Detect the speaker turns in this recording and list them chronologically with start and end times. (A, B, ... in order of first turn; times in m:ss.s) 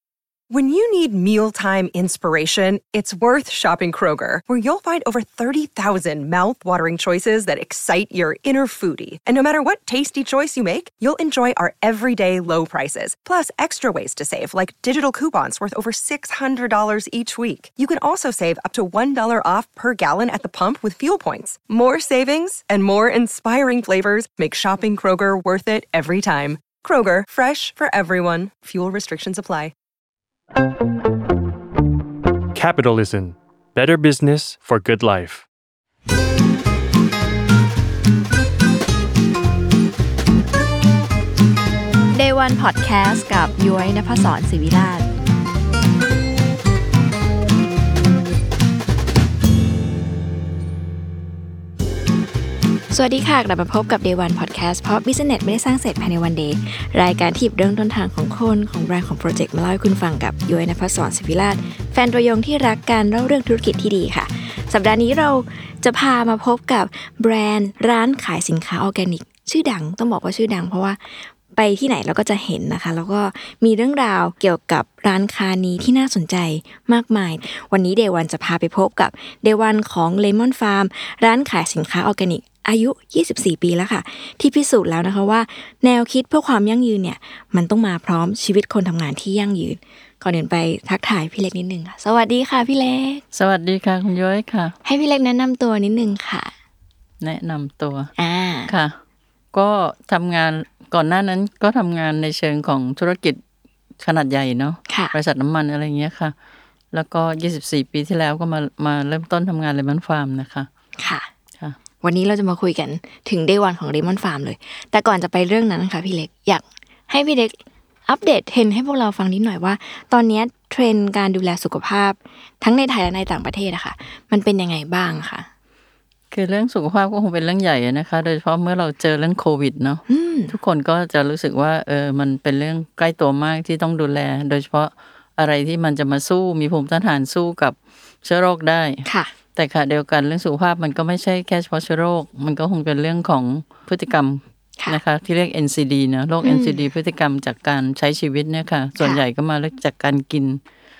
0:00.5-0:29.7 A
0:32.5-0:35.4 B
0:42.1-0:45.1 C
0:52.9-1:33.2 C
1:33.3-1:34.8 D
1:34.8-1:36.5 C
1:37.2-1:38.1 D
1:38.2-1:38.7 C
1:38.7-1:38.9 D
1:39.5-1:43.4 D
1:44.0-1:46.3 D
1:44.9-1:45.1 C
1:46.9-1:50.7 D
1:51.0-1:51.3 C
1:52.0-1:57.6 C
1:58.1-2:05.5 C
2:06.3-2:30.6 D
2:10.1-2:10.6 C
2:26.4-2:26.8 C